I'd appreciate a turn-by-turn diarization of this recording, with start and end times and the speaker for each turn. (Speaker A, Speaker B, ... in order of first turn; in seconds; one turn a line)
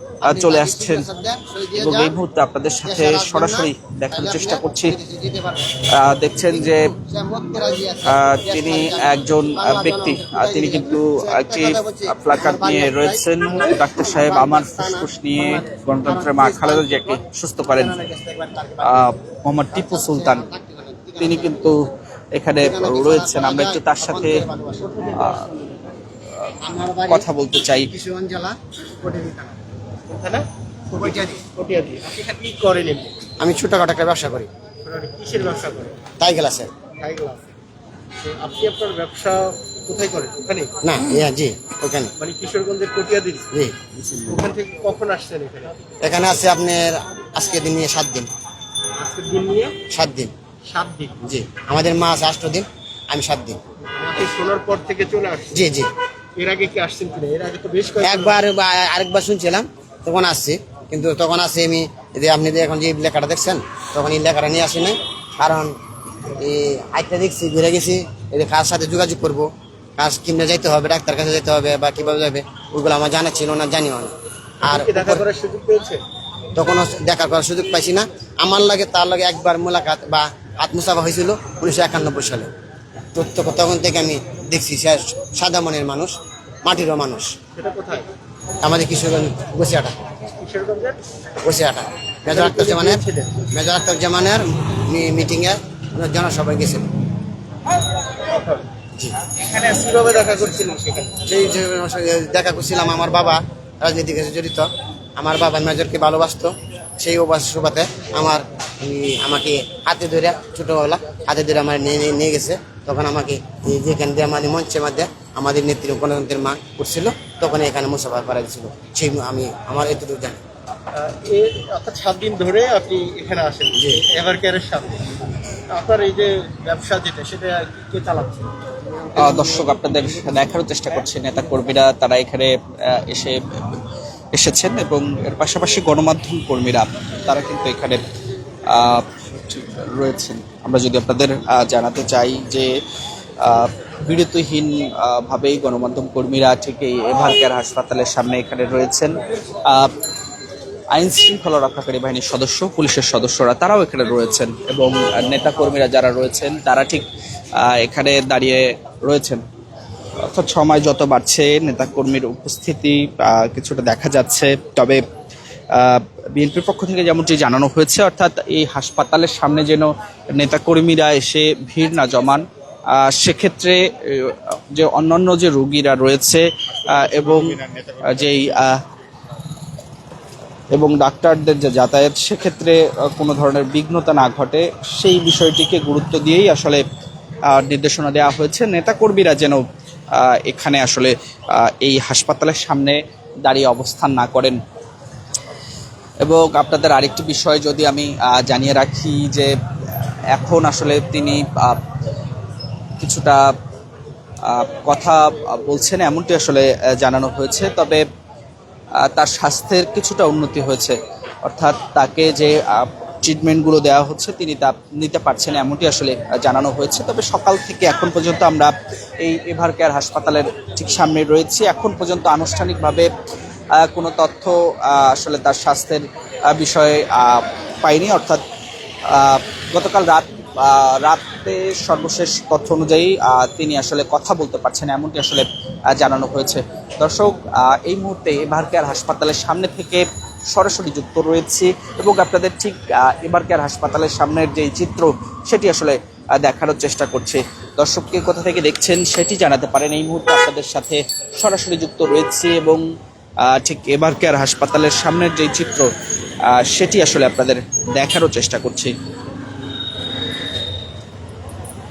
Speaker A: 0.2-1.1
Speaker B: 0.2-2.1
Speaker A: 1.8-5.0
Speaker B: 2.8-5.8
Speaker A: 5.9-6.9
Speaker B: 6.3-19.1
Speaker A: 8.1-18.0
Speaker A: 18.8-20.5
Speaker B: 19.7-21.8
Speaker A: 21.2-24.4
Speaker B: 22.6-25.4
Speaker A: 25.1-25.5
Speaker B: 26.6-29.6
Speaker A: 27.1-27.9
Speaker C: 30.1-30.4
Speaker B: 30.9-31.5
Speaker C: 31.5-33.1
Speaker B: 33.4-34.5
Speaker C: 34.8-36.1
Speaker B: 36.2-36.7
Speaker C: 37.0-37.5
Speaker C: 38.2-40.7
Speaker B: 40.8-42.1
Speaker C: 42.2-43.5
Speaker B: 43.5-44.4
Speaker C: 44.3-45.7
Speaker B: 46.0-48.3
Speaker C: 49.0-49.8
Speaker B: 49.9-50.3
Speaker C: 50.6-51.2
Speaker B: 51.2-53.6
Speaker C: 53.9-55.6
Speaker B: 55.5-55.9
Speaker C: 56.4-58.4
Speaker B: 58.0-65.7
Speaker B: 66.3-74.1
Speaker B: 74.6-75.2
Speaker C: 74.7-76.0
Speaker B: 76.5-82.5
Speaker B: 83.1-87.3
Speaker C: 87.5-88.1
Speaker B: 88.6-89.9
Speaker C: 90.4-91.0
Speaker B: 91.4-96.9
Speaker C: 92.3-93.4
Speaker C: 98.3-98.7
Speaker C: 99.4-101.2
Speaker B: 101.2-120.4
Speaker C: 120.9-125.0
Speaker B: 123.7-124.0
Speaker C: 125.7-128.5
Speaker B: 128.9-130.0
Speaker A: 129.2-133.8
Speaker A: 134.3-138.0
Speaker A: 138.7-142.7
Speaker A: 143.4-149.9
Speaker A: 150.9-157.0
Speaker A: 157.6-159.4
Speaker A: 160.2-165.0
Speaker A: 165.7-178.8
Speaker A: 180.7-186.8
Speaker A: 187.5-189.6
Speaker A: 190.1-194.6
Speaker A: 196.2-199.5
Speaker A: 200.3-201.8
Speaker A: 203.0-203.5
Speaker A: 204.4-208.0
Speaker A: 209.0-223.1
Speaker A: 223.7-228.4
Speaker A: 229.1-252.8
Speaker A: 253.4-255.9
Speaker A: 256.5-258.9